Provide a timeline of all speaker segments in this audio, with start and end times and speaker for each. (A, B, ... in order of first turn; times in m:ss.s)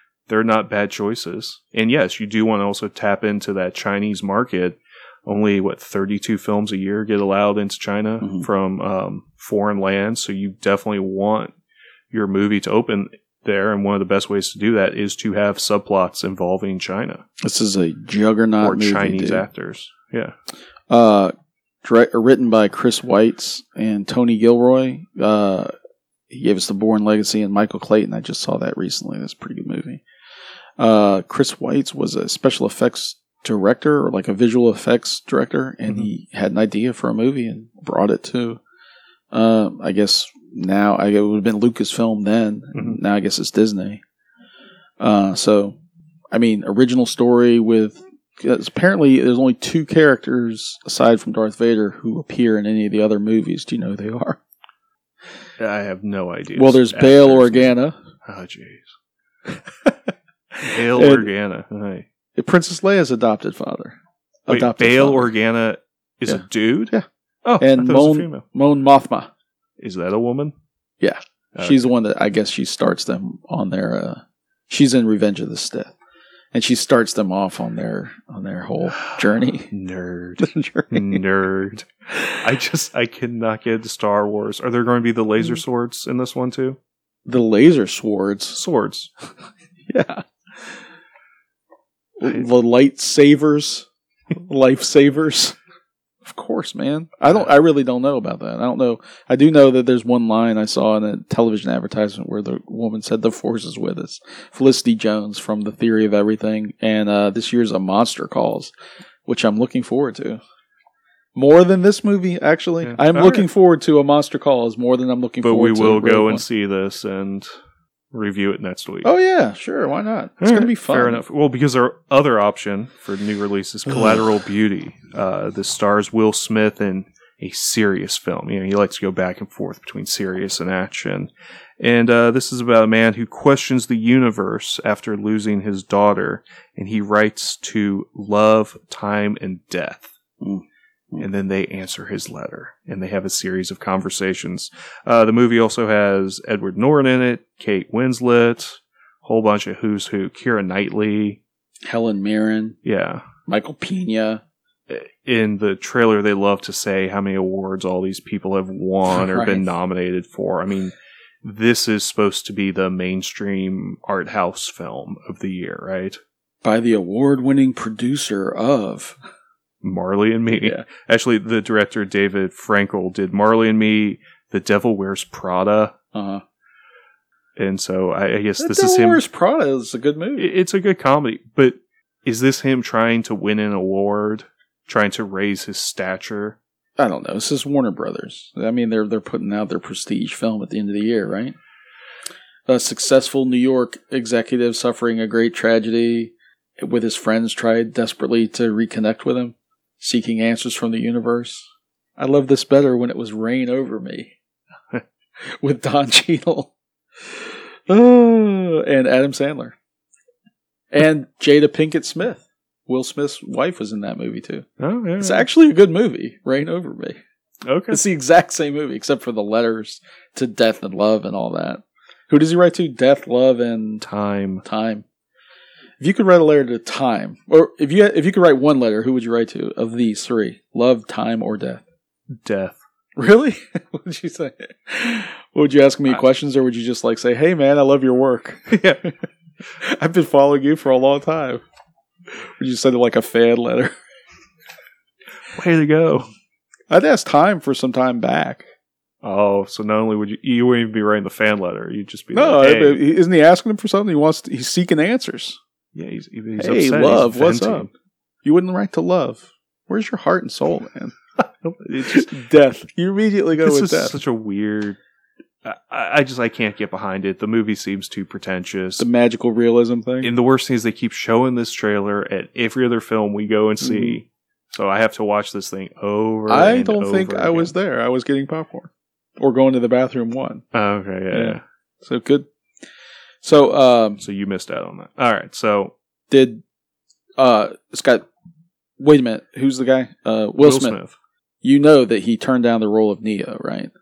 0:00.3-0:11.5 A
0:08.2-0:08.4 B
0:12.1-0:17.2 A
0:17.4-0:19.4 B
0:18.6-0:20.3 A
0:20.9-0:25.7 B
0:26.3-0:30.0 B
0:30.8-0:38.6 B
0:39.3-0:44.0 B
0:45.0-0:45.8 B
0:46.3-0:54.4 B
0:55.6-0:57.7 A
0:56.5-0:58.0 B
0:58.2-0:58.9 A
1:00.5-1:01.3 B
1:00.6-1:02.1 A
1:02.4-1:05.3 B
1:04.5-1:06.9 A
1:06.3-1:07.0 B
1:07.4-1:08.4 A
1:07.6-1:09.3 B
1:09.8-1:10.5 A
1:11.0-1:15.9 B
1:11.6-1:11.8 A
1:16.5-1:19.7 B
1:19.7-1:21.9 A
1:20.4-1:21.2 B
1:22.4-1:26.8 A
1:27.2-1:28.6 B
1:28.5-1:29.1 A
1:29.9-1:30.2 B
1:32.2-1:35.6 B
1:36.2-1:48.7 B
1:49.2-1:50.4 B
1:51.3-1:56.4 B
1:52.8-1:53.5 A
1:55.4-1:57.5 A
1:58.1-1:59.1 A
1:59.0-2:01.2 B
2:00.4-2:20.1 A
2:20.4-2:21.2 B
2:21.2-2:31.4 A
2:31.8-2:32.8 B
2:32.8-2:33.2 A
2:33.5-2:34.4 B
2:34.9-2:46.2 A
2:39.1-2:39.7 B
2:46.6-2:49.2 B
2:49.8-2:55.9 A
2:50.5-2:50.8 B
2:56.1-2:56.4 B
2:57.6-2:59.2 A
2:58.6-3:00.5 B
3:00.4-3:06.6 A
3:07.0-3:11.5 B
3:12.7-3:21.6 B
3:22.2-3:24.4 B
3:25.6-3:26.7 B
3:27.4-3:29.8 B
3:30.9-3:34.6 B
3:34.8-3:35.4 A
3:35.2-3:37.2 B
3:37.6-3:38.0 A
3:37.9-3:44.0 B
3:44.0-3:44.6 A
3:44.6-3:45.0 B
3:46.0-3:51.8 B
3:52.4-3:52.8 A
3:53.2-3:59.1 B
3:58.7-3:59.0 A
3:59.8-4:01.6 B
4:02.6-4:03.9 B
4:05.5-4:06.3 A
4:06.9-4:08.6 B
4:09.2-4:13.0 A
4:12.3-4:15.6 B
4:15.9-4:17.9 A
4:16.6-4:17.9 B
4:18.4-4:21.1 B
4:21.6-4:22.3 A
4:22.0-4:24.2 B
4:23.6-4:25.0 A
4:25.6-4:29.0 A
4:29.0-4:30.3 B
4:30.2-4:37.7 A
4:33.8-4:34.2 B
4:36.5-4:40.6 B
4:40.7-4:41.6 A
4:41.3-4:42.5 B
4:43.4-4:44.2 B
4:44.2-4:45.9 A
4:46.3-4:46.6 B
4:47.4-4:48.2 B
4:49.0-4:51.0 B
4:50.6-4:51.1 A
4:51.6-4:53.9 B